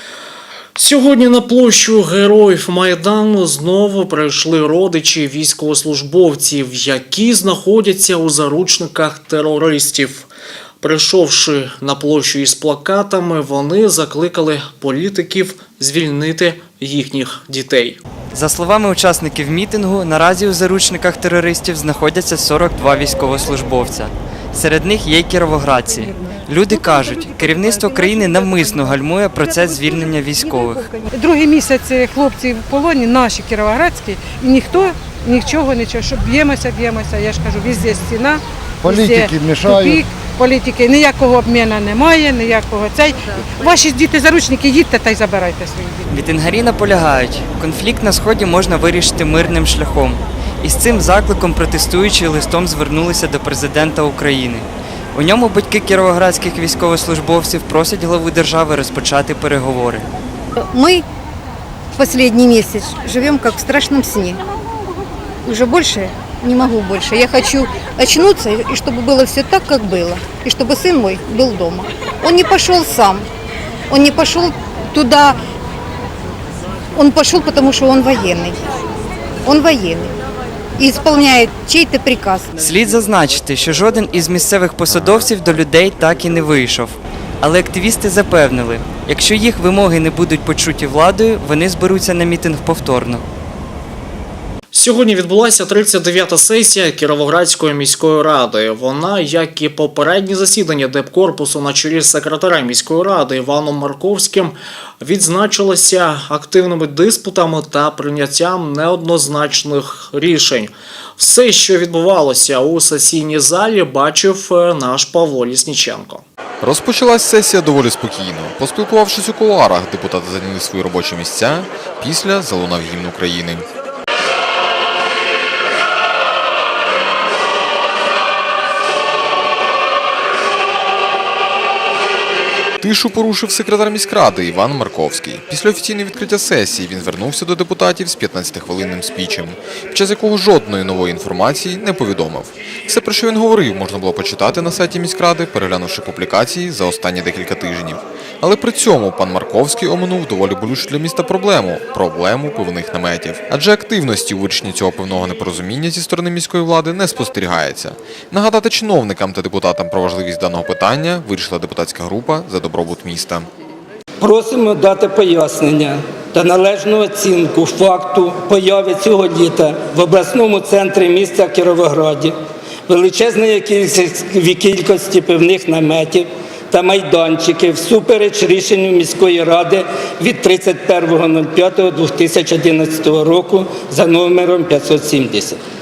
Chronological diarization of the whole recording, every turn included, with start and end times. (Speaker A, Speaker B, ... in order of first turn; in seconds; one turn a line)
Speaker A: 0.8-10.3
Speaker A: 10.8-18.0
Speaker B: 18.3-30.9
Speaker C: 31.1-38.4
Speaker C: 38.9-46.0
Speaker B: 46.1-60.1
Speaker D: 60.6-61.0
Speaker D: 62.0-64.4
Speaker D: 65.5-73.2
Speaker D: 73.9-75.4
Speaker D: 77.0-78.6
Speaker D: 79.5-80.1
Speaker D: 80.8-82.5
Speaker B: 82.6-93.2
Speaker A: 94.7-116.2
Speaker E: 116.6-123.7
Speaker E: 132.8-163.5
Speaker F: 164.2-172.3
Speaker F: 172.9-185.6